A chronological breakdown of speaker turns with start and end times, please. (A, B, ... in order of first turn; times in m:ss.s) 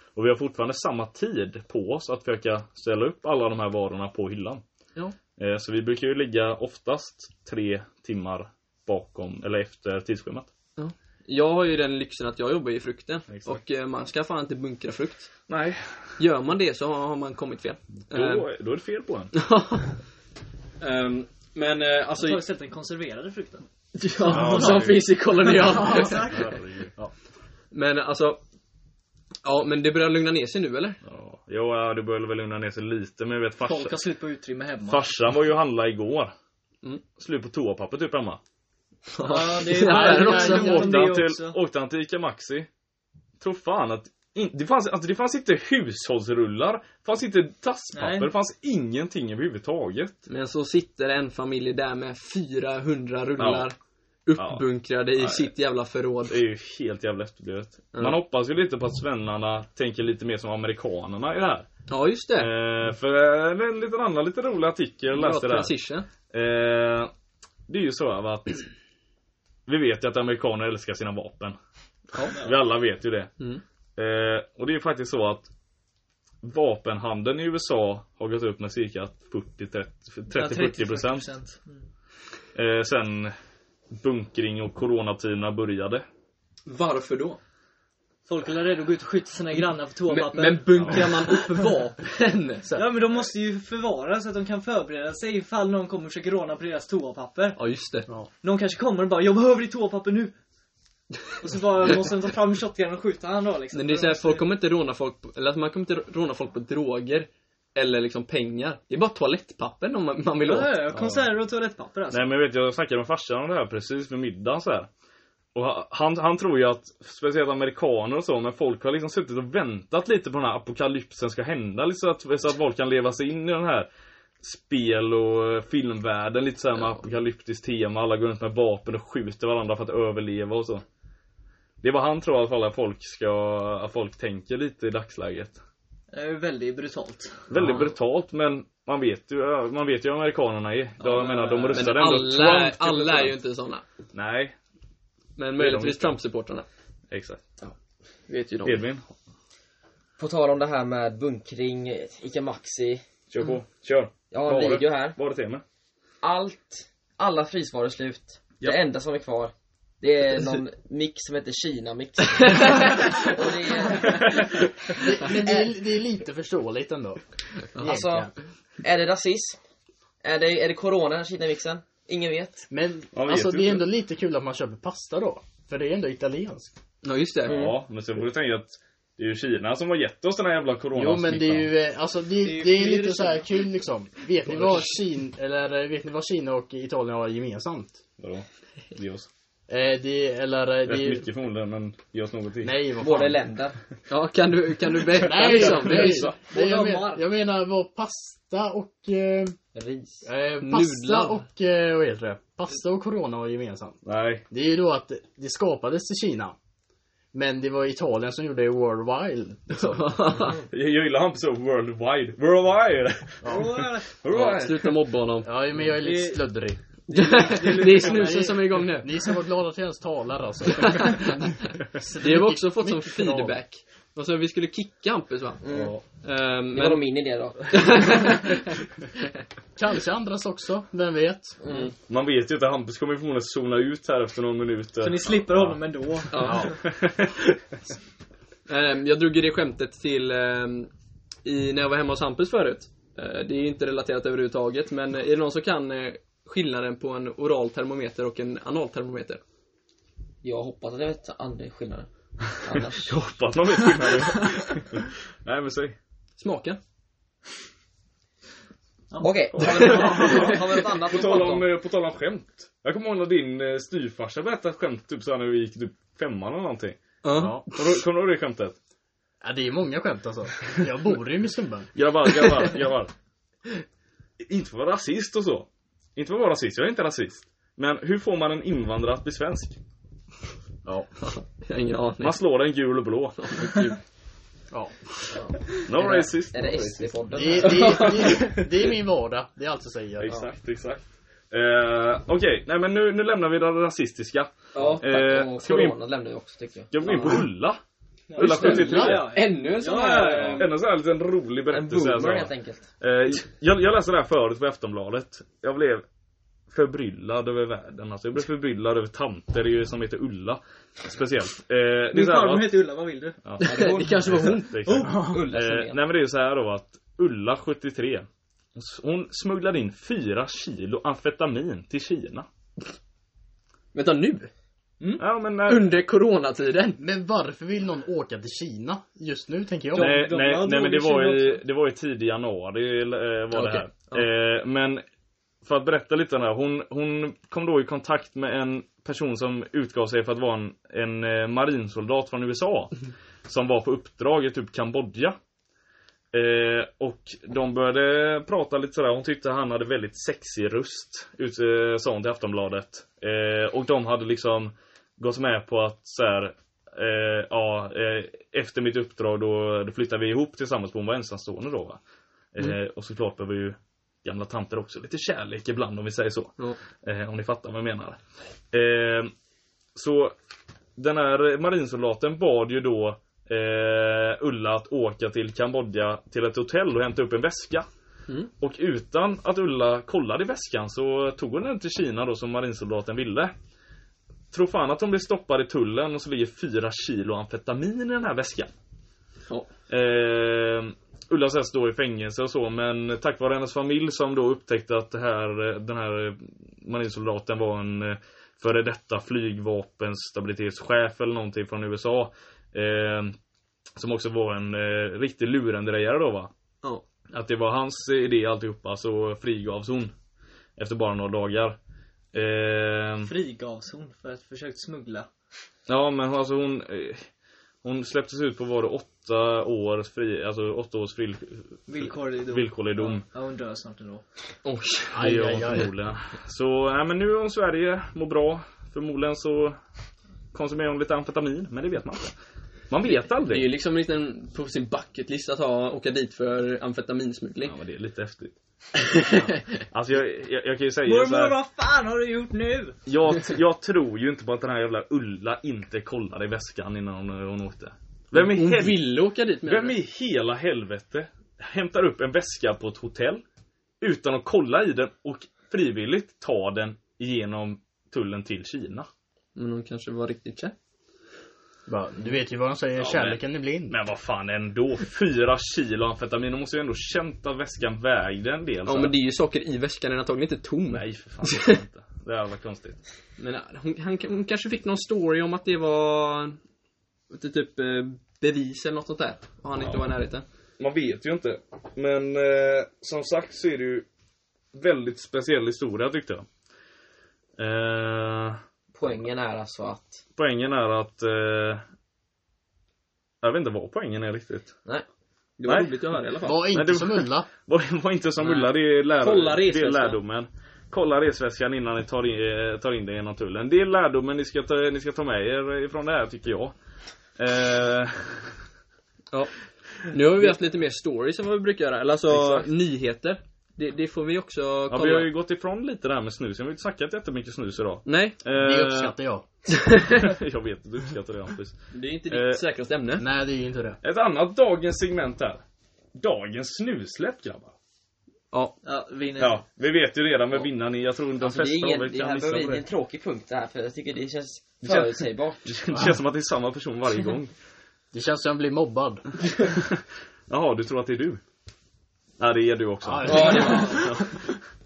0:00.1-0:04.6 A
0:05.4-0:10.5 A
0:10.8-0:15.3 B
0:13.3-0:13.6 A
0:15.5-0:16.1 A
0:16.2-0:18.4 B
0:18.1-0:19.3 A
0:19.3-0:20.0 B
0:20.8-0:22.4 B
0:22.2-0:23.6 C
0:24.0-0:26.4 B
0:24.2-0:24.9 C
0:24.3-0:25.0 A
0:25.8-0:26.5 C
0:26.3-0:26.9 A
0:27.7-0:28.4 B
0:29.4-0:31.0 B
0:31.0-0:34.0 A
0:33.6-0:35.1 C
0:34.8-0:36.3 A
0:37.2-0:38.4 A
0:39.1-0:41.1 B
0:39.2-0:41.6 C
0:39.8-0:41.0 D
0:40.6-0:42.7 A
0:43.4-0:50.2 A
0:47.9-0:48.3 C
0:50.3-0:56.4 B
0:53.4-0:53.7 A
0:54.4-0:54.6 A
0:55.2-0:55.5 A
0:56.3-1:01.6 A
1:01.9-1:02.5 B
1:02.4-1:05.7 A
1:05.1-1:06.0 B
1:06.3-1:07.1 A
1:07.7-1:08.6 A
1:09.7-1:11.6 A
1:12.3-1:12.6 C
1:12.4-1:13.3 A
1:14.0-1:15.5 A
1:16.4-1:21.3 A
1:20.3-1:21.8 C
1:22.5-1:23.3 A
1:24.0-1:26.0 A
1:26.7-1:27.4 B
1:28.3-1:31.6 C
1:30.1-1:32.7 B
1:32.7-1:37.6 C
1:37.6-1:38.1 B
1:38.4-1:40.3 C
1:41.4-1:44.4 C
1:43.7-1:50.8 B
1:50.4-1:52.3 C
1:50.9-1:51.2 A
1:52.1-1:54.9 A
1:55.5-2:03.9 A
2:04.4-2:10.8 A
2:11.8-2:15.6 A
2:16.1-2:17.4 C
2:17.5-2:23.4 A
2:17.5-2:17.8 B
2:21.0-2:22.0 C
2:21.7-2:23.8 B
2:24.1-2:24.5 A
2:25.4-2:26.6 B
2:25.6-2:26.1 A
2:27.1-2:27.4 A
2:28.3-2:28.8 B
2:28.6-2:29.1 A
2:30.2-2:33.0 E
2:33.3-2:35.6 A
2:34.3-2:35.2 E
2:36.2-2:44.4 E
2:45.0-2:47.2 D
2:45.2-2:45.7 E
2:47.7-2:48.3 D
2:47.8-2:48.3 E
2:48.8-2:49.6 E
2:50.2-2:52.7 E
2:52.7-2:56.7 D
2:53.1-2:53.8 A
2:57.0-2:57.6 B
2:57.4-2:57.8 E
2:57.4-3:01.7 A
3:00.9-3:08.0 D
3:02.4-3:03.5 C
3:08.2-3:09.3 A
3:09.7-3:11.3 D
3:10.8-3:12.7 A
3:12.6-3:13.4 D
3:13.0-3:13.8 E
3:14.1-3:16.3 B
3:15.1-3:19.6 D
3:15.4-3:16.4 A
3:16.1-3:17.2 C
3:19.7-3:20.2 E
3:20.2-3:24.0 D
3:20.6-3:21.4 B
3:24.0-3:24.4 A
3:24.5-3:26.6 D
3:27.3-3:30.4 D
3:29.7-3:30.6 B
3:30.6-3:35.0 A
3:33.4-3:33.7 D
3:33.4-3:34.2 C
3:34.3-3:35.5 B
3:35.4-3:36.8 D
3:36.0-3:36.4 C
3:37.1-3:38.6 C
3:37.1-3:39.3 B
3:37.9-3:43.6 D
3:40.7-3:41.5 B
3:42.2-3:45.6 B
3:45.6-3:46.0 E
3:45.7-3:46.0 D
3:46.2-3:47.0 B
3:46.7-3:48.2 E
3:47.7-3:48.6 B
3:49.8-3:51.6 D
3:51.6-3:51.9 E
3:52.1-3:55.8 A
3:55.0-3:56.7 C
3:56.3-3:56.7 B
3:56.6-3:57.6 A
3:58.7-4:00.9 B
4:01.4-4:09.4 B
4:10.4-4:13.1 E
4:13.0-4:16.0 A
4:16.4-4:16.8 B
4:19.2-4:21.7 E
4:19.5-4:27.0 A
4:19.6-4:20.6 B
4:27.2-4:28.0 B
4:27.3-4:27.6 D
4:27.7-4:28.8 A
4:29.4-4:31.9 D
4:31.9-4:33.1 A
4:34.4-4:39.8 A
4:41.2-4:42.4 B
4:42.2-4:43.6 A
4:43.4-4:44.0 B
4:44.7-4:45.0 D
4:45.3-4:48.2 E
4:45.8-4:47.1 A
4:47.3-4:50.3 D
4:47.6-4:48.5 B
4:50.2-4:56.0 A
4:54.7-4:55.0 B
4:55.0-4:57.4 E
4:56.9-4:57.8 A
4:58.3-5:00.7 C
4:58.4-4:59.3 A
4:58.4-5:00.8 B
4:58.6-4:59.2 D
5:00.5-5:06.0 A
5:01.7-5:02.9 E
5:06.7-5:12.8 A
5:12.1-5:13.4 C
5:13.4-5:22.5 A
5:13.6-5:14.8 B
5:13.6-5:16.0 E
5:14.9-5:15.4 D
5:23.9-5:24.5 B
5:25.2-5:25.8 A
5:25.6-5:27.0 B
5:27.0-5:30.2 D
5:29.9-5:31.6 C
5:30.0-5:35.0 A
5:33.5-5:34.2 B
5:35.6-5:42.9 A
5:43.4-5:45.4 A
5:46.3-6:02.0 A
6:02.5-6:08.2 A
6:08.7-6:09.3 A
6:09.9-6:10.3 A
6:11.0-6:17.8 A
6:18.6-6:23.5 A
6:24.5-6:28.7 A
6:29.9-6:43.4 A
6:44.0-6:46.5 A
6:47.3-6:50.1 A
6:50.8-6:51.8 A
6:52.3-6:53.3 A
6:53.2-6:55.3 C
6:55.9-6:57.2 A
6:57.8-7:03.2 A
7:01.9-7:04.2 C
7:04.6-7:05.3 B
7:05.1-7:05.9 D
7:05.2-7:09.8 A
7:10.5-7:12.3 A
7:12.9-7:13.6 A
7:13.1-7:17.7 B
7:17.6-7:18.5 A
7:19.1-7:19.6 B
7:19.2-7:21.6 A
7:21.0-7:23.0 C
7:23.1-7:29.0 A
7:28.3-7:30.0 B
7:29.6-7:33.4 A
7:34.0-7:39.1 A
7:39.6-7:40.7 B
7:41.9-7:44.0 D
7:43.0-7:49.1 A
7:48.8-7:51.8 B
7:50.9-7:53.0 A
7:53.4-7:56.6 B
7:57.3-8:00.4 B
7:59.8-8:00.1 A
8:00.8-8:04.0 A
8:04.7-8:06.4 A
8:07.6-8:08.6 A
8:08.9-8:10.2 E
8:10.3-8:11.8 A
8:13.4-8:14.7 A
8:15.6-8:16.6 B
8:15.7-8:16.0 A
8:16.4-8:17.5 D
8:16.6-8:26.7 A
8:18.4-8:20.2 B
8:27.4-8:28.5 A
8:30.0-8:35.3 B
8:32.3-8:32.7 A
8:34.9-8:39.1 A
8:38.0-8:38.4 B
8:38.5-8:39.4 D
8:39.7-8:40.2 B
8:40.0-8:41.8 A
8:41.9-8:43.2 B
8:42.3-8:42.6 A
8:43.2-8:44.0 D
8:44.0-8:45.6 A
8:46.2-8:47.7 A
8:48.8-8:49.6 C
8:49.4-8:52.8 A
8:51.4-8:55.7 E
8:54.8-8:57.5 A
8:58.1-8:59.2 D
9:00.5-9:01.4 A
9:02.4-9:04.2 A
9:03.0-9:04.2 D
9:03.2-9:04.2 B